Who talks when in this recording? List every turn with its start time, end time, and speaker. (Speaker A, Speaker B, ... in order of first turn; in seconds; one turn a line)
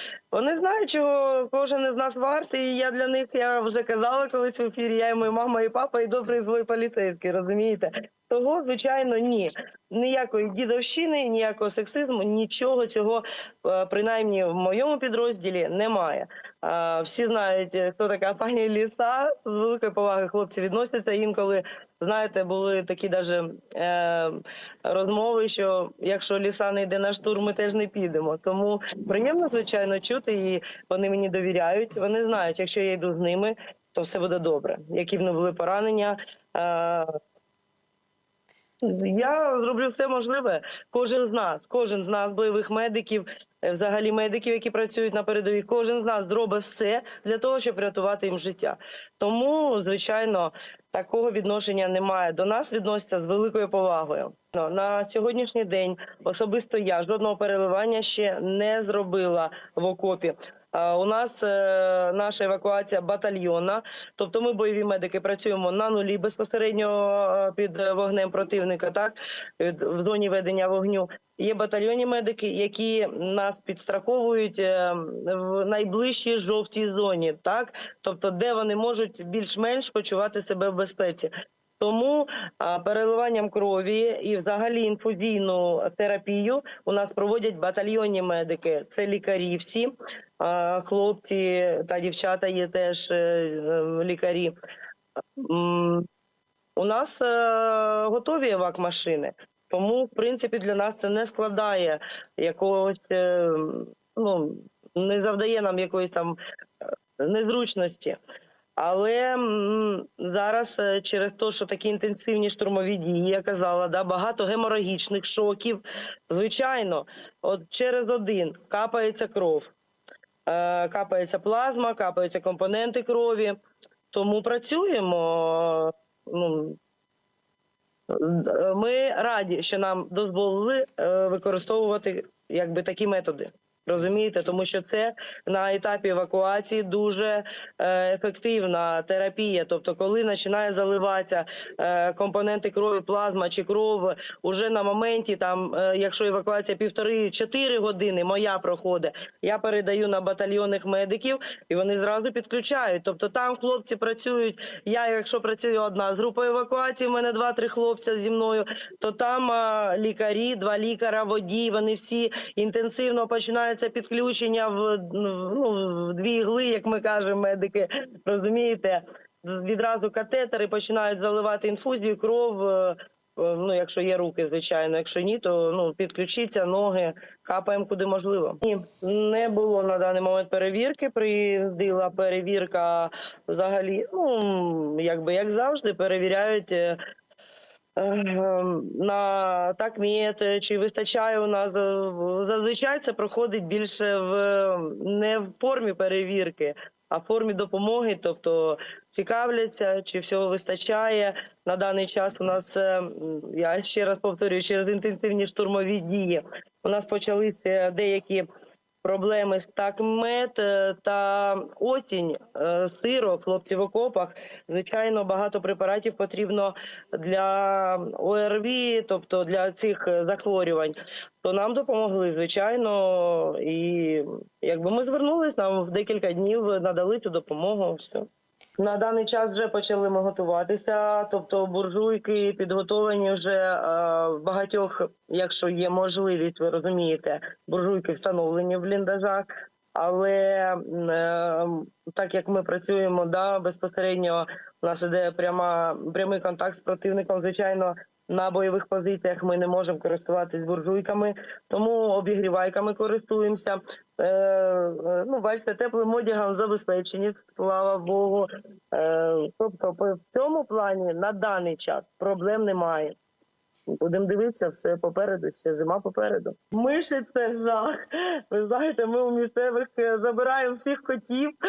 Speaker A: 0.3-37.1
Speaker A: 38.8-94.5
Speaker A: 95.4-96.0
Speaker A: 96.8-108.2
Speaker A: 108.8-119.7
Speaker A: 120.5-123.5
Speaker A: 124.1-126.8
Speaker A: 128.1-187.0
Speaker A: 188.0-208.4
Speaker A: 209.0-228.2
Speaker A: 228.8-263.1
Speaker A: 264.0-268.0
Speaker A: 268.5-271.5